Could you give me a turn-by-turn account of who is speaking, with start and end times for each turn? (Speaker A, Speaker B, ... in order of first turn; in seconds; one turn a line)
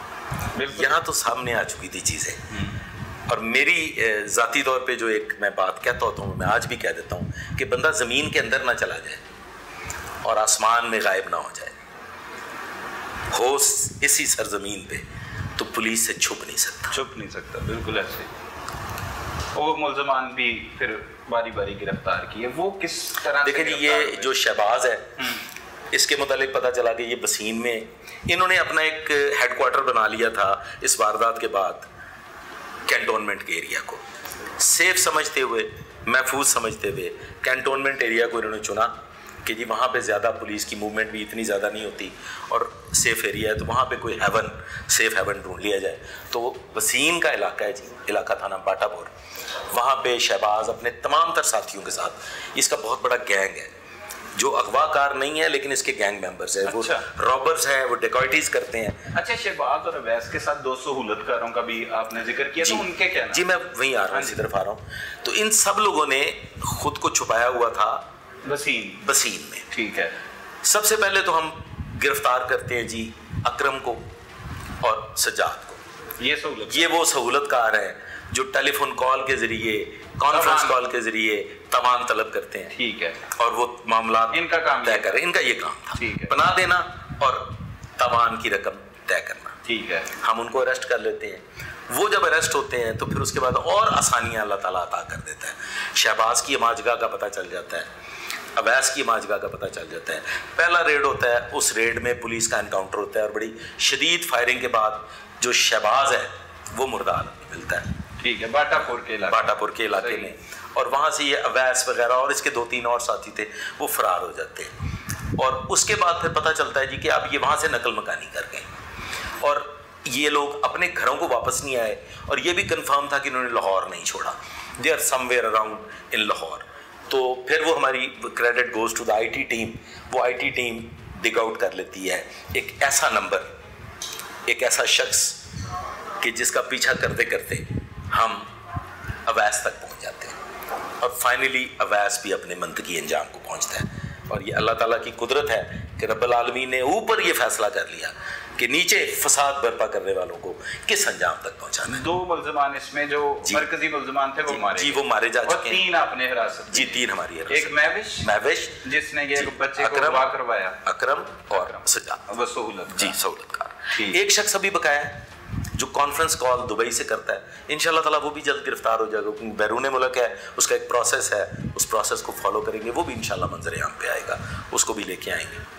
Speaker A: 0.6-1.0
Speaker B: 0.7-2.4
Speaker B: 3.3-9.2
Speaker B: 10.2-11.8
Speaker B: 13.3-15.0
Speaker B: 15.6-17.0
Speaker A: 16.9-18.3
Speaker A: 19.6-24.4
Speaker B: 23.4-25.1
Speaker A: 25.2-25.4
Speaker B: 25.9-31.9
Speaker B: 32.9-34.0
Speaker B: 34.6-38.9
Speaker B: 39.5-49.1
Speaker B: 49.7-53.7
Speaker B: 54.4-59.0
Speaker A: 56.7-57.1
Speaker A: 59.1-63.5
Speaker B: 62.6-68.0
Speaker A: 64.1-64.4
Speaker A: 68.4-69.0
Speaker B: 69.0-69.7
Speaker A: 69.7-70.2
Speaker B: 70.6-74.0
Speaker B: 74.8-75.8
Speaker A: 76.2-77.0
Speaker B: 76.7-82.7
Speaker A: 80.3-80.8
Speaker A: 82.7-83.2
Speaker B: 83.4-89.5
Speaker A: 84.3-85.2
Speaker A: 86.0-86.3
Speaker A: 89.7-90.1
Speaker B: 90.2-97.9
Speaker B: 98.6-107.8
Speaker A: 108.2-110.3
Speaker B: 109.3-114.7
Speaker B: 115.4-118.7
Speaker B: 119.4-133.4
Speaker B: 134.5-135.4
Speaker B: 136.2-138.5
Speaker B: 139.3-140.4
Speaker B: 141.0-152.1
Speaker A: 151.9-158.3
Speaker B: 154.5-155.8
Speaker B: 156.7-158.8
Speaker A: 158.8-160.8
Speaker B: 159.4-160.3
Speaker B: 160.8-162.2
Speaker A: 161.5-163.2
Speaker B: 162.9-165.2
Speaker A: 163.9-164.2
Speaker B: 165.8-175.6